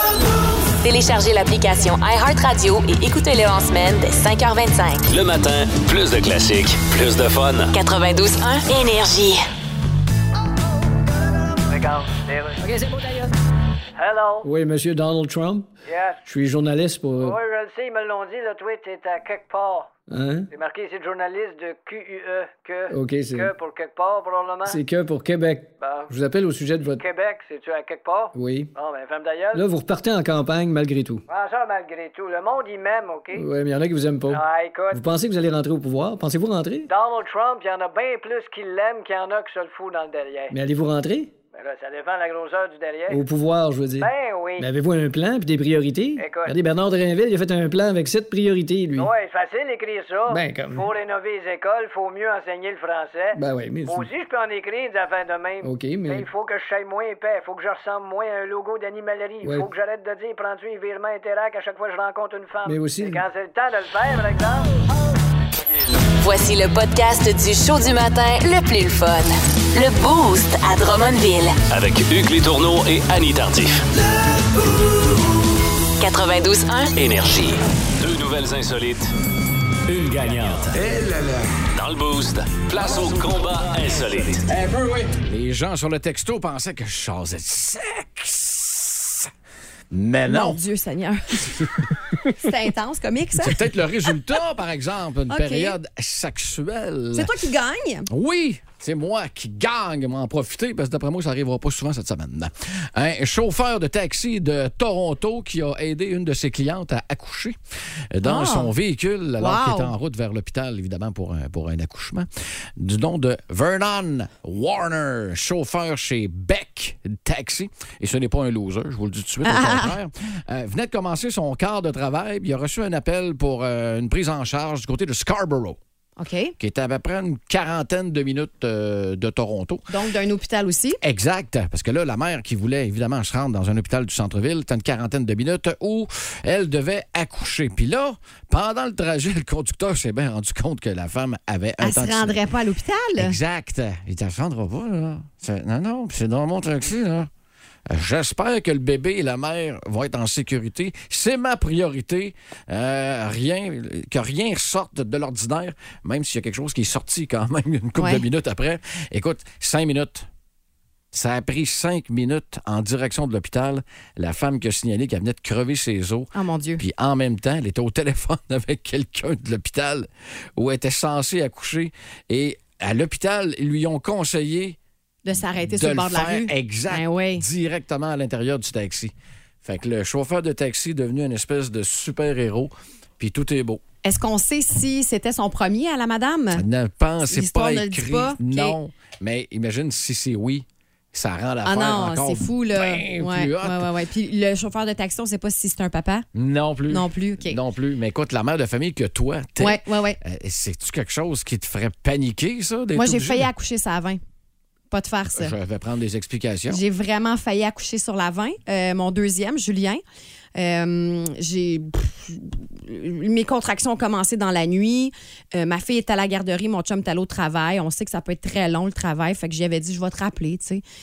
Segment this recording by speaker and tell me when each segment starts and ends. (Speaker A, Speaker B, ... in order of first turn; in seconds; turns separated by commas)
Speaker A: 0.8-5.1, Speaker B: 5.1-7.7, Speaker A: 7.7-9.4, Speaker C: 11.7-12.6, Speaker C: 14.0-14.5, Speaker D: 14.4-15.7, Speaker C: 15.8-16.2, Speaker D: 16.2-17.4, Speaker C: 17.2-19.9, Speaker D: 20.1-20.5, Speaker C: 20.5-24.8, Speaker D: 22.9-23.5, Speaker D: 24.7-27.0, Speaker C: 25.8-26.1, Speaker C: 26.9-29.7, Speaker D: 28.3-28.7, Speaker D: 29.5-31.2, Speaker C: 31.3-33.5, Speaker D: 33.3-34.4, Speaker C: 34.3-35.0, Speaker D: 34.9-36.9, Speaker C: 36.9-40.5, Speaker D: 40.5-41.3, Speaker C: 41.5-43.2, Speaker D: 43.1-49.1, Speaker C: 44.0-44.7, Speaker C: 46.2-46.6, Speaker C: 48.9-64.8, Speaker D: 50.3-50.9, Speaker D: 53.4-54.1, Speaker D: 55.6-56.2, Speaker D: 62.6-63.2, Speaker A: 66.2-71.6, Speaker B: 71.7-73.8, Speaker A: 76.0-76.9, Speaker B: 77.0-79.1, Speaker B: 79.9-80.8, Speaker B: 81.7-84.4, Speaker E: 84.6-89.3, Speaker E: 89.9-90.6, Speaker F: 90.3-91.5, Speaker F: 92.2-93.6, Speaker E: 93.4-97.4, Speaker F: 95.3-95.8, Speaker F: 97.1-98.1, Speaker E: 98.1-107.6, Speaker E: 108.1-125.8, Speaker F: 108.2-108.7, Speaker F: 109.4-109.9, Speaker F: 119.4-120.0, Speaker F: 126.2-126.5, Speaker E: 126.6-129.8, Speaker F: 129.9-131.0, Speaker E: 131.0-142.3, Speaker F: 141.8-143.4, Speaker E: 143.2-147.3, Speaker E: 147.9-160.3, Speaker F: 157.9-158.2, Speaker E: 161.1-174.8, Speaker F: 166.3-166.8, Speaker F: 175.2-177.4, Speaker E: 175.5-183.8, Speaker F: 184.0-186.6, Speaker E: 186.5-193.9, Speaker F: 187.3-188.8, Speaker F: 191.6-196.2, Speaker E: 196.3-203.5, Speaker F: 196.9-197.6, Speaker F: 199.6-200.2, Speaker F: 202.9-204.2, Speaker F: 204.9-205.5, Speaker E: 205.3-206.8, Speaker F: 206.7-210.0, Speaker F: 210.6-220.8